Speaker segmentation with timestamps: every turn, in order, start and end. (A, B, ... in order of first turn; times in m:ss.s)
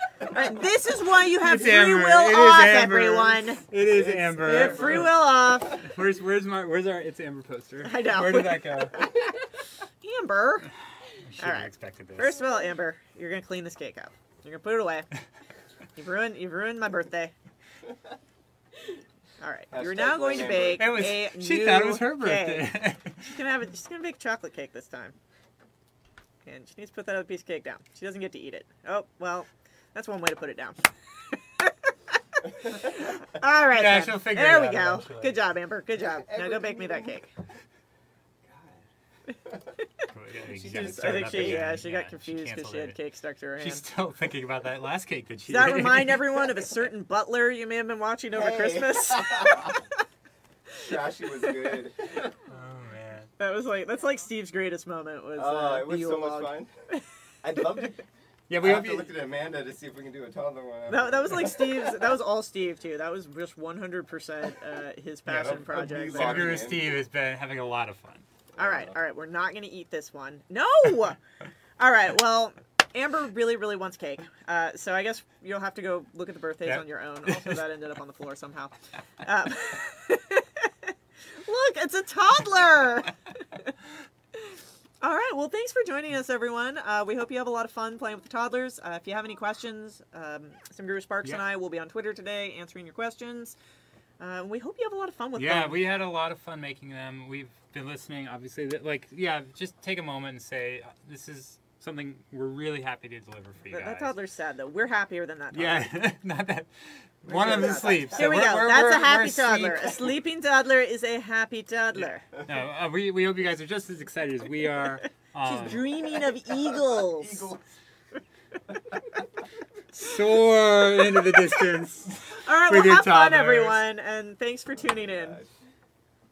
0:00.3-0:03.7 A
0:01.3-0:09.1 B
0:03.7-0:05.2 C
0:04.4-0:05.9 A
0:07.8-0:09.4 A
0:10.0-0:10.7 A
0:11.1-0:12.4 B
0:11.4-0:15.1 A
0:16.0-0:17.3 A
0:19.4-0:25.2 A
0:19.7-0:21.0 C
0:20.5-0:23.3 B
0:26.4-0:37.3 A
0:33.7-0:35.4 B
0:36.2-0:37.2 C
0:38.4-0:38.8 C
0:39.8-0:40.1 A
0:40.1-0:43.0 B
0:40.6-0:43.8 A
0:40.7-0:41.6 C
0:43.6-0:46.7 B
0:45.5-0:50.0 A
0:48.3-0:49.8 C
0:50.8-0:52.3 C
0:52.5-0:53.3 B
0:53.4-0:56.6 A
0:55.4-0:56.7 C
0:57.4-1:02.0 C
0:58.5-0:59.1 B
1:00.9-1:06.6 A
1:05.3-1:08.3 B
1:05.3-1:07.0 C
1:08.6-1:08.9 C
1:08.6-1:11.2 A
1:11.8-1:23.7 A
1:16.6-1:17.6 B
1:24.4-1:33.6 A
1:34.2-1:35.8 A
1:35.4-1:44.2 B
1:43.7-1:46.0 A
1:45.5-1:50.1 B
1:47.3-1:52.3 A
1:52.0-1:55.9 B
1:55.4-1:57.5 A
1:56.5-1:57.6 C
1:59.9-2:03.8 B
2:02.2-2:05.4 A
2:04.9-2:05.5 C